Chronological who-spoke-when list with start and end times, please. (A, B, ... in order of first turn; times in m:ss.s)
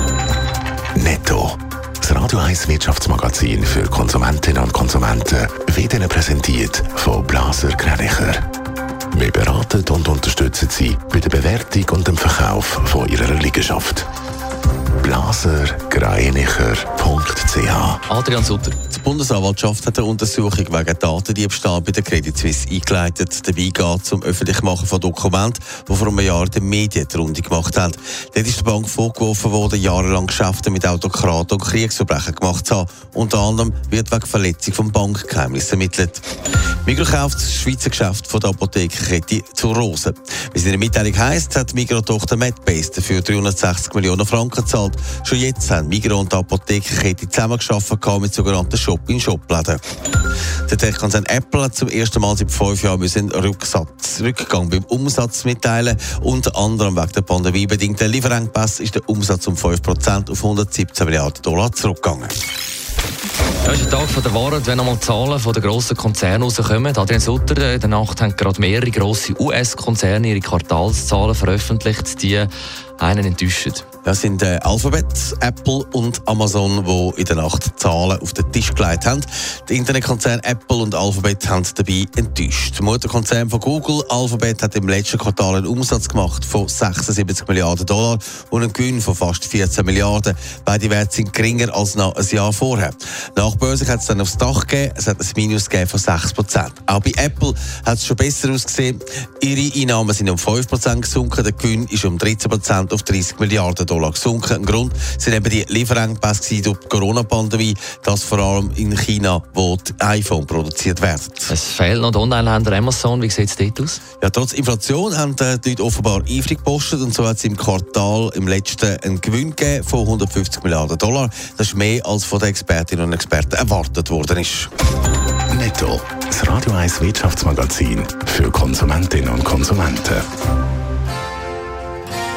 0:00.9-0:08.4 A
0:09.1-0:14.0 A
0:15.0-0:18.0 A
0:18.1-0:18.8 B
0:18.8-0:36.2 C
0:36.8-0:49.8 C
0:50.7-1:02.4 C
1:03.6-1:13.8 B
1:14.0-1:51.5 C
1:51.5-1:54.0 B
1:54.2-2:04.7 C
2:05.5-2:10.2 A